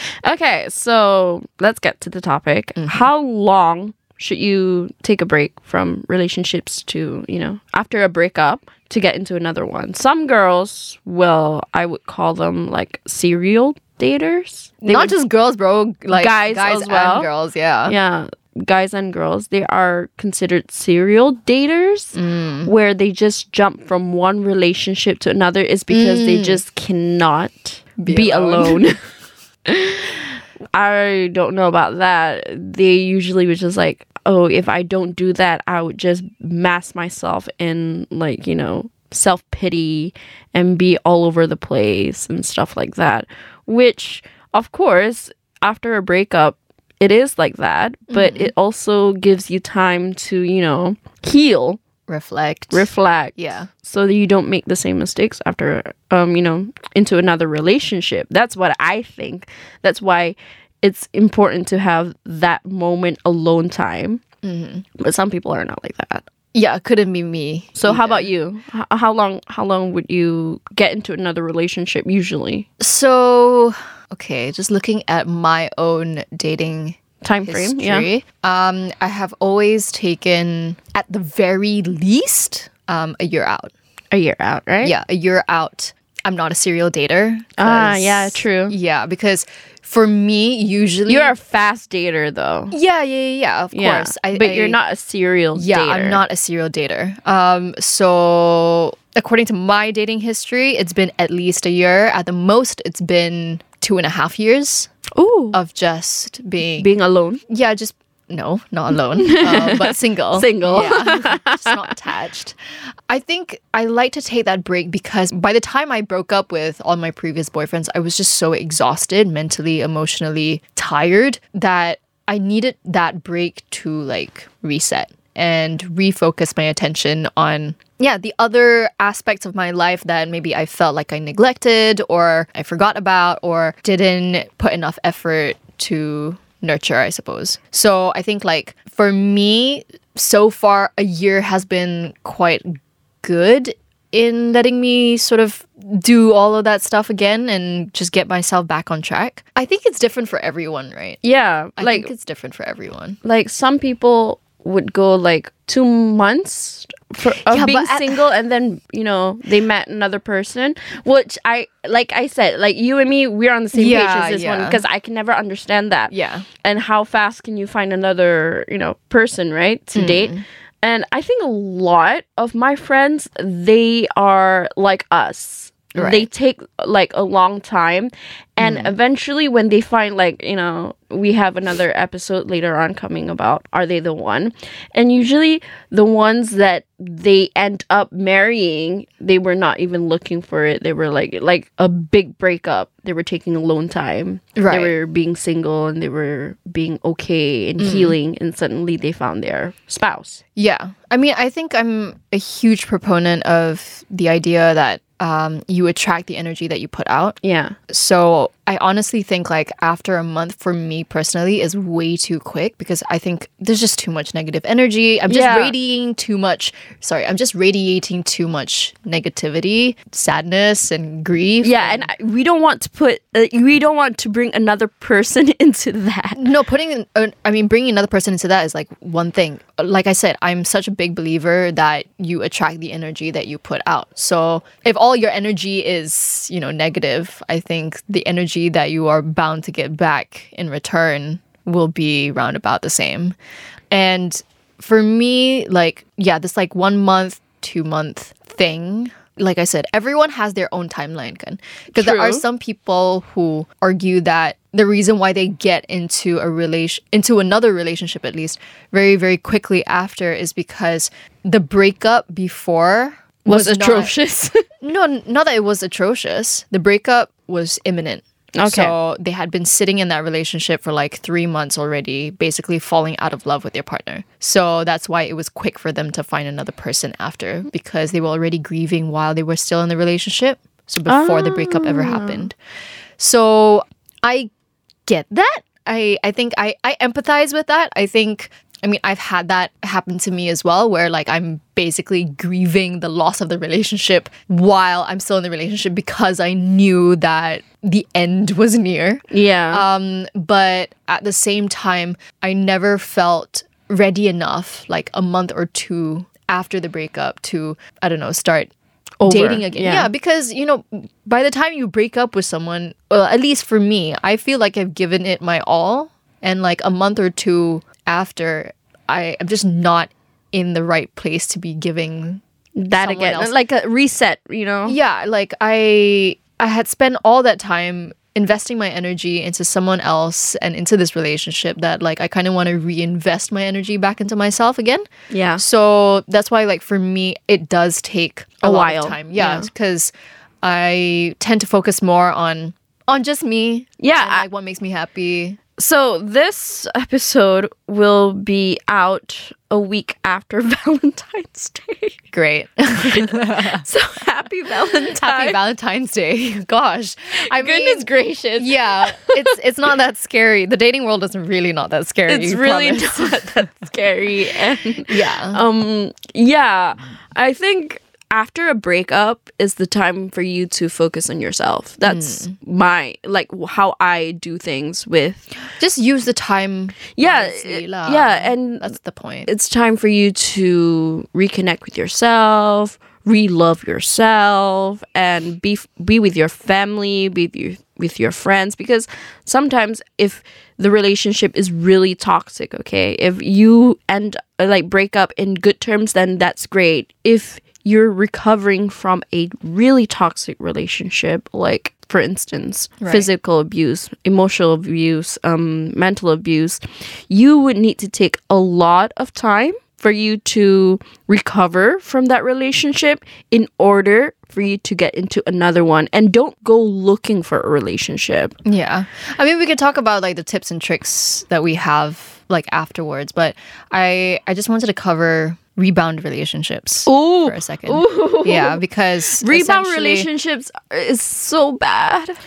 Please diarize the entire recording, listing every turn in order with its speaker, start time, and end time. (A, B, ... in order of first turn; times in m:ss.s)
0:00.2-0:15.1 A
0:02.8-0:03.1 B
0:14.8-0:18.0 B
0:16.1-0:17.3 A
0:17.9-0:29.0 A
0:22.2-0:22.7 B
0:25.9-0:26.6 B
0:28.0-0:28.8 B
0:29.7-0:51.8 A
0:48.1-0:48.5 B
0:52.1-0:53.7 B
0:52.7-1:04.2 A
1:04.4-1:04.8 B
1:05.0-1:06.3 A
1:06.5-1:08.3 B
1:07.8-1:12.7 A
1:12.8-1:23.7 B
1:17.2-1:18.1 A
1:24.1-1:24.9 A
1:24.8-1:31.4 B
1:27.6-1:28.8 A
1:31.1-1:32.7 A
1:32.7-1:34.8 B
1:33.7-1:36.2 A
1:35.6-1:44.9 B
1:45.2-1:45.6 A
1:45.5-1:46.9 B
1:46.8-1:47.4 A
1:47.5-1:52.6 B
1:49.2-1:51.8 A
1:53.1-2:31.2 B
2:31.2-2:32.1 A
2:31.8-2:33.2 B
2:33.2-3:20.4 A
2:37.3-2:38.2 B
2:43.7-2:44.8 B
2:46.1-2:46.5 B
2:49.9-2:50.4 B
2:56.0-2:56.3 B
2:58.6-2:58.9 B
3:14.6-3:15.0 B
3:17.8-3:18.2 B
3:20.6-3:27.4 B
3:27.4-3:27.8 A
3:27.9-3:42.1 B
3:35.3-3:35.8 A
3:41.6-3:46.5 A
3:46.4-4:03.4 B
4:03.9-4:24.1 B
4:11.9-4:12.4 A
4:23.5-4:24.6 A
4:24.8-4:42.6 B
4:28.6-4:28.9 A
4:41.1-4:42.5 A
4:43.2-4:44.5 B
4:45.1-5:08.7 B
4:59.3-4:59.8 A
5:09.2-5:10.1 A
5:09.2-5:22.4 B
5:22.8-5:25.0 A
5:22.9-5:23.5 B
5:24.9-5:35.0 B
5:35.3-5:35.6 A
5:35.6-5:45.6 B
5:38.6-5:39.7 A
5:44.0-5:44.5 A
5:45.8-5:52.2 A
5:52.3-5:53.8 B
5:53.0-5:55.6 A
5:54.7-6:03.5 B
5:57.4-5:59.5 A
6:02.3-6:15.6 A
6:05.0-6:05.6 B
6:12.0-6:12.5 B
6:15.8-6:19.5 B
6:17.2-6:19.0 A
6:19.5-6:58.6 A
6:43.0-6:43.3 B
6:58.6-7:10.3 B
7:07.1-7:08.8 A
7:09.4-7:12.4 A